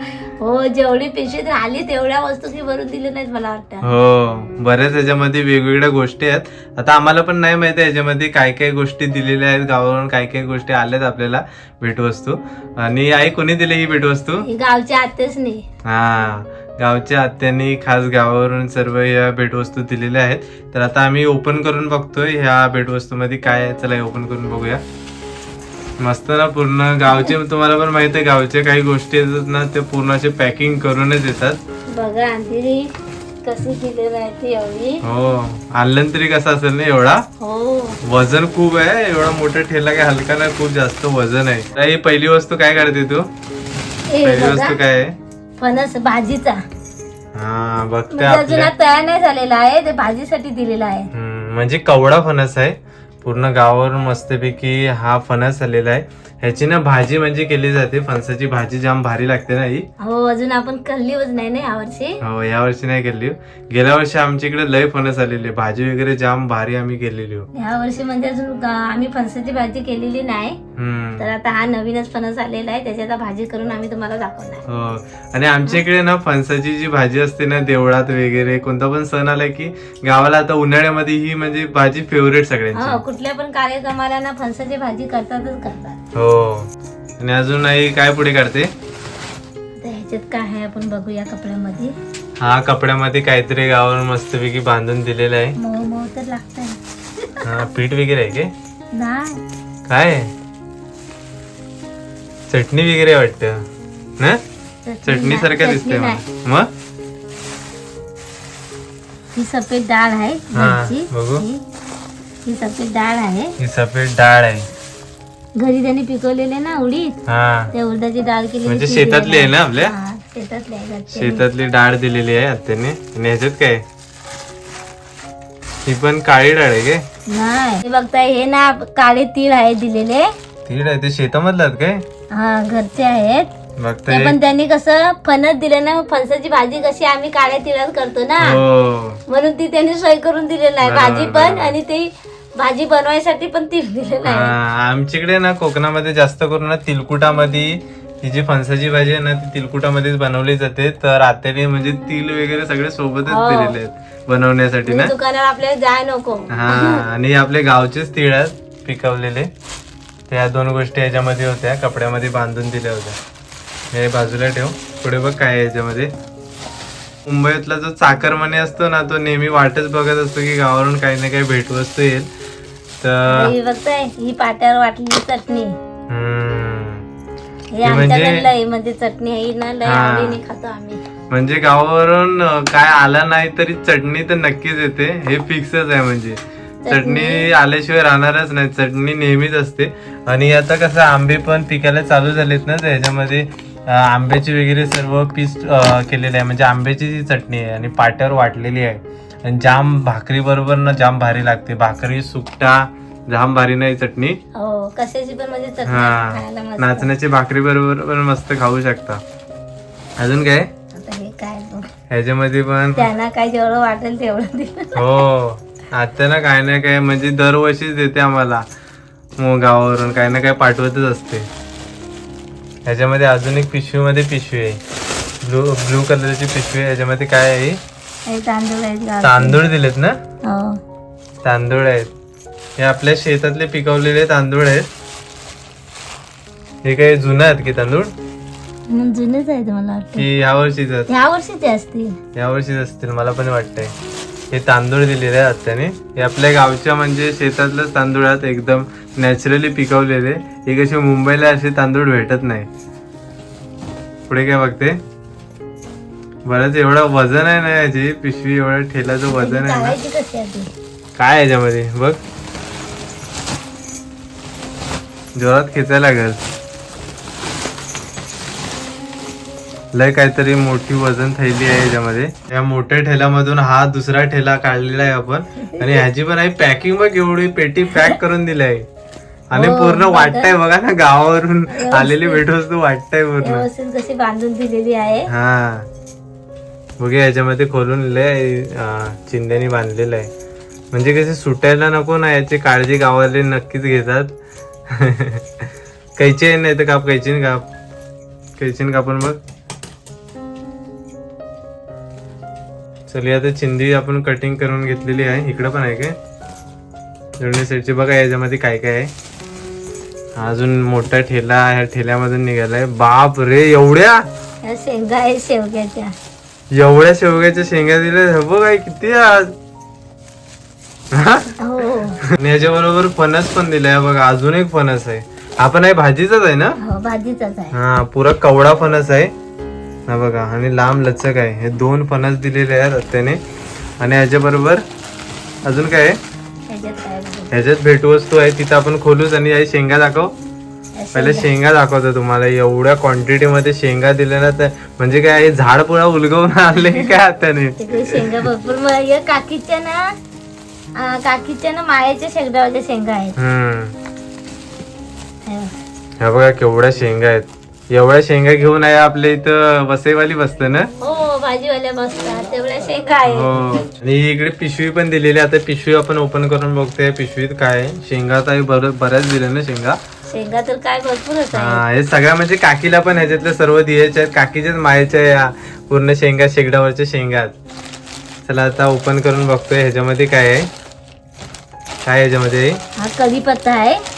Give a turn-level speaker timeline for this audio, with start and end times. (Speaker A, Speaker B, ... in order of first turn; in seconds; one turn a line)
Speaker A: 0.4-3.9
Speaker B: 3.8-14.4
Speaker A: 14.4-15.6
Speaker B: 15.8-24.8
Speaker B: 26.0-31.6
Speaker A: 31.9-32.9
Speaker A: 33.4-35.0
Speaker B: 35.0-37.2
Speaker A: 37.4-38.0
Speaker B: 38.0-43.3
Speaker A: 44.1-44.8
Speaker B: 44.2-45.1
Speaker A: 45.6-46.6
Speaker B: 47.3-48.7
Speaker A: 48.1-51.1
Speaker B: 51.1-59.9
Speaker A: 60.0-62.2
Speaker B: 62.2-67.5
Speaker A: 67.5-70.6
Speaker B: 70.8-71.3
Speaker A: 71.2-74.6
Speaker B: 74.7-83.0
Speaker A: 82.7-86.0
Speaker B: 86.1-88.7
Speaker A: 89.8-91.9
Speaker B: 92.4-95.5
Speaker A: 95.6-97.4
Speaker B: 97.4-98.5
Speaker A: 98.9-99.4
Speaker B: 99.9-100.3
Speaker B: 102.5-103.6
Speaker A: 104.8-106.2
Speaker B: 105.0-106.7
Speaker A: 109.3-111.6
Speaker B: 110.5-111.4
Speaker A: 112.5-113.5
Speaker B: 113.6-114.7
Speaker A: 115.5-117.1
Speaker B: 117.3-117.7
Speaker A: 117.7-121.4
Speaker B: 118.6-119.9
Speaker B: 121.1-123.8
Speaker B: 125.8-127.0
Speaker A: 127.3-130.3
Speaker B: 130.7-132.0
Speaker A: 132.3-133.5
Speaker B: 133.8-134.3
Speaker A: 134.1-138.6
Speaker B: 138.4-139.2
Speaker A: 139.3-144.6
Speaker B: 140.8-141.8
Speaker B: 144.2-155.1
Speaker A: 153.2-153.8
Speaker A: 154.8-157.0
Speaker B: 156.5-159.5
Speaker B: 160.3-163.2
Speaker B: 163.9-166.1
Speaker B: 167.2-172.3
Speaker B: 173.0-173.5
Speaker A: 173.3-175.7
Speaker B: 176.1-177.0
Speaker A: 177.7-181.0
Speaker B: 177.8-178.4
Speaker B: 179.8-180.4
Speaker B: 181.3-204.4
Speaker A: 186.8-187.4
Speaker A: 204.6-207.1
Speaker B: 205.8-209.2
Speaker B: 210.2-210.7
Speaker A: 210.9-211.9
Speaker B: 212.1-213.1
Speaker A: 212.9-215.2
Speaker B: 214.9-218.6
Speaker B: 219.4-221.5
Speaker B: 222.8-224.8
Speaker B: 225.4-227.8
Speaker A: 228.3-229.6
Speaker B: 229.2-230.2
Speaker A: 230.4-230.8
Speaker B: 231.4-232.1
Speaker B: 232.8-234.9
Speaker B: 236.8-238.1
Speaker A: 238.9-240.2
Speaker B: 240.1-241.1
Speaker A: 241.1-242.2
Speaker B: 242.3-243.9
Speaker B: 244.5-252.7
Speaker B: 254.3-255.0
Speaker B: 256.4-260.0
Speaker A: 259.3-260.7
Speaker B: 261.1-262.2
Speaker B: 265.3-266.4
Speaker B: 269.9-278.8
Speaker B: 279.5-283.7
Speaker A: 279.5-280.5
Speaker A: 281.7-282.4
Speaker A: 283.4-285.3
Speaker B: 285.3-285.9
Speaker B: 287.0-290.3
Speaker B: 290.9-294.3
Speaker B: 294.9-295.6
Speaker B: 296.2-297.6
Speaker B: 298.6-299.4
Speaker B: 303.1-306.1
Speaker B: 307.4-309.1
Speaker B: 310.4-314.2
Speaker A: 314.6-316.1
Speaker B: 316.7-319.5
Speaker B: 321.1-321.5
Speaker A: 321.6-322.2
Speaker B: 322.3-326.8
Speaker A: 326.8-327.7
Speaker B: 327.7-329.3
Speaker B: 330.1-333.4
Speaker B: 334.0-334.8
Speaker B: 335.6-336.2
Speaker A: 336.7-337.5
Speaker B: 337.5-340.3
Speaker A: 340.9-341.5
Speaker B: 341.1-348.3
Speaker A: 347.8-350.1
Speaker A: 351.0-353.4
Speaker B: 353.4-353.9
Speaker A: 355.4-355.7
Speaker B: 356.2-360.9
Speaker A: 361.0-363.5
Speaker B: 363.3-370.0
Speaker A: 370.3-371.8
Speaker B: 371.5-377.5
Speaker B: 378.4-380.7
Speaker B: 382.1-382.8
Speaker A: 383.0-384.0